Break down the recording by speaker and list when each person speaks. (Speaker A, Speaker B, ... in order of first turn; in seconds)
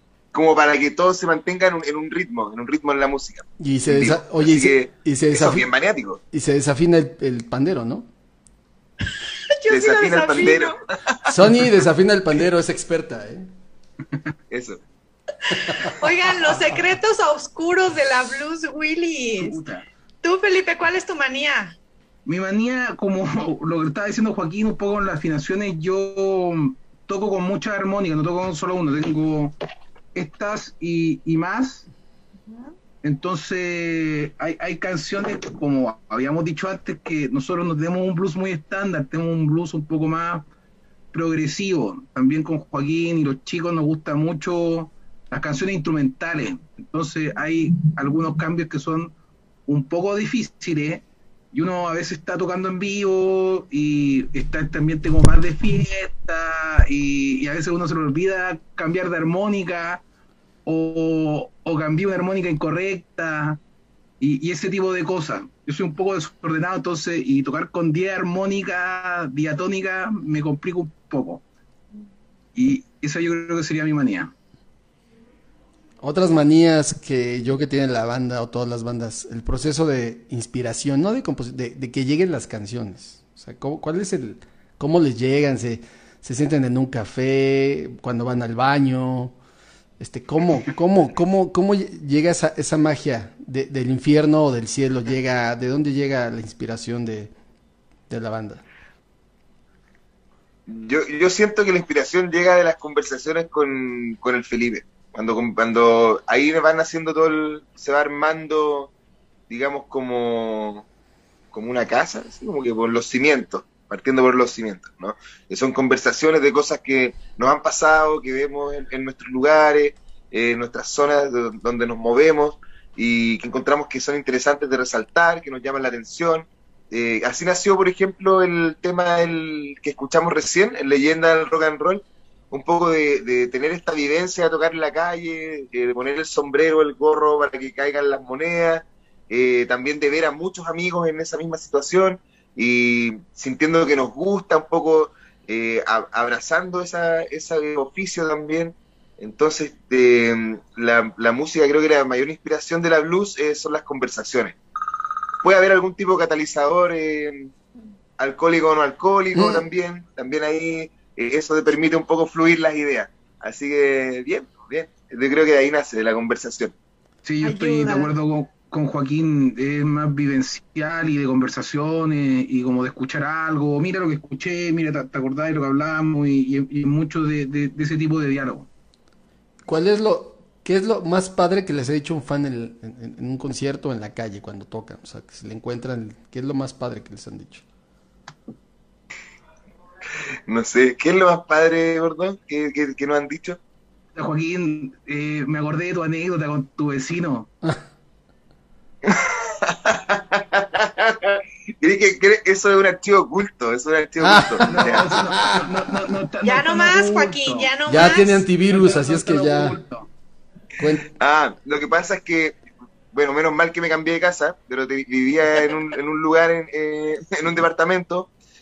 Speaker A: 0.3-6.2, 9.7-11.4, 14.5-14.8, 100.7-108.9, 109.5-110.8, 111.5-154.6, 155.4-157.5, 158.2-166.7, 190.5-193.6, 199.0-205.3, 211.1-212.6, 213.1-218.3
Speaker B: 3.6-5.7, 6.3-8.1, 11.3-13.5, 76.0-89.3, 90.0-97.3, 98.1-98.6, 159.3-159.6, 179.7-187.6, 204.2-205.9, 207.9-209.8, 210.8-211.1
Speaker C: 9.6-10.8, 15.5-19.6, 20.2-21.8, 32.5-32.7, 167.4-168.1, 206.4-208.4
Speaker D: 19.4-19.9, 22.2-29.6, 30.1-31.9, 33.0-40.5, 41.1-49.1, 49.7-60.0, 60.6-63.6, 64.2-71.4, 72.5-74.3, 167.2-178.7, 194.2-197.5, 204.6-210.1